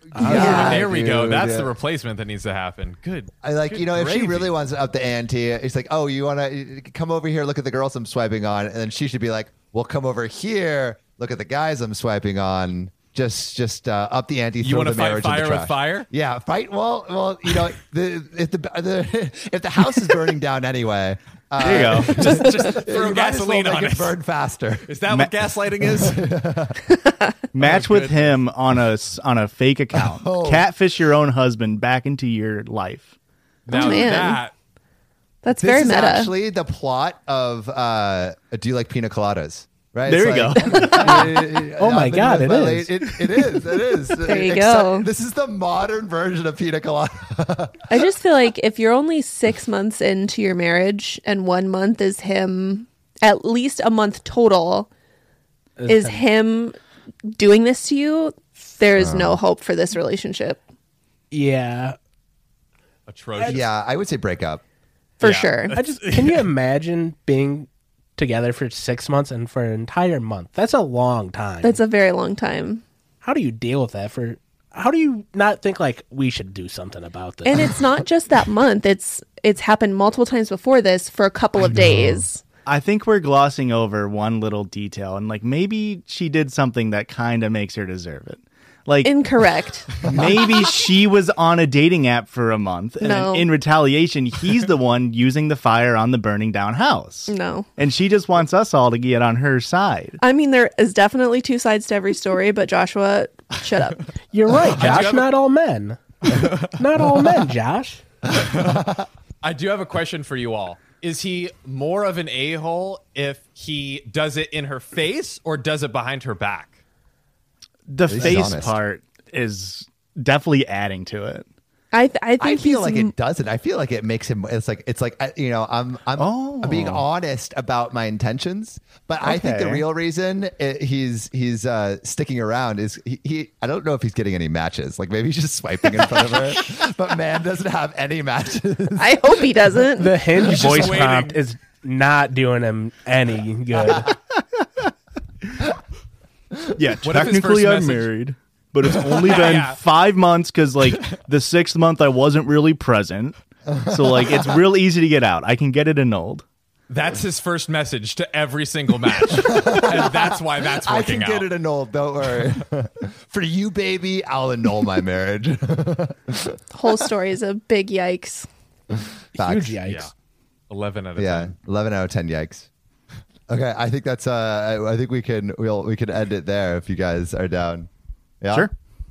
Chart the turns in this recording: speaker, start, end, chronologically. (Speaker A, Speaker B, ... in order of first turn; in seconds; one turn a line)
Speaker A: 0.1-1.7
Speaker B: 0.2-4.5
Speaker C: 0.2-0.8
Speaker D: 0.3-0.8
Speaker A: 3.4-24.9
Speaker B: 14.6-16.1
Speaker E: 21.6-22.1
Speaker B: 22.0-24.2
Speaker B: 24.9-26.2
Speaker A: 25.9-26.8
Speaker E: 27.5-33.1
Speaker B: 27.6-28.4
Speaker A: 30.0-30.7
Speaker B: 33.7-34.5
Speaker D: 33.7-34.4
Speaker D: 35.4-36.3
Speaker A: 35.6-47.9
Speaker E: 40.1-41.2
Speaker D: 40.7-41.1
Speaker C: 41.1-43.1
Speaker D: 44.2-45.1
Speaker D: 47.9-54.9
Speaker C: 55.8-56.2
Speaker D: 55.9-56.8
Speaker D: 57.3-60.6
Speaker A: 59.0-59.4
Speaker C: 61.3-62.0
Speaker B: 63.1-63.6
Speaker C: 63.4-63.6
Speaker A: 63.5-64.6
Speaker D: 65.2-65.8
Speaker B: 65.2-66.3
Speaker C: 65.7-71.8
Speaker D: 71.6-72.8
Speaker C: 73.2-77.7
Speaker D: 77.5-82.4
Speaker E: 82.7-89.2
Speaker D: 89.0-90.0
Speaker E: 90.0-100.2
Speaker D: 93.0-93.5
Speaker D: 97.3-97.7
Speaker D: 100.2-104.1
Speaker C: 104.2-108.0
Speaker B: 104.7-105.3
Speaker B: 106.3-106.7
Speaker B: 108.3-108.8
Speaker A: 108.5-109.1
Speaker B: 109.4-116.8
Speaker E: 117.9-121.5
Speaker A: 118.1-118.8
Speaker D: 121.9-123.1
Speaker A: 122.4-139.2
Speaker E: 126.2-127.0
Speaker E: 129.2-129.8
Speaker D: 139.0-140.2
Speaker C: 140.0-144.1
Speaker B: 140.4-141.4
Speaker E: 146.8-156.4
Speaker B: 147.0-148.1
Speaker B: 149.2-149.8
Speaker A: 153.7-154.4
Speaker B: 156.9-161.5
Speaker A: 159.4-166.6
Speaker D: 166.7-168.5
Speaker C: 169.3-170.1
Speaker A: 169.3-169.8
Speaker B: 169.9-170.1
Speaker B: 170.7-171.5
Speaker A: 171.2-172.7
Speaker A: 173.5-177.9
Speaker A: 178.4-178.7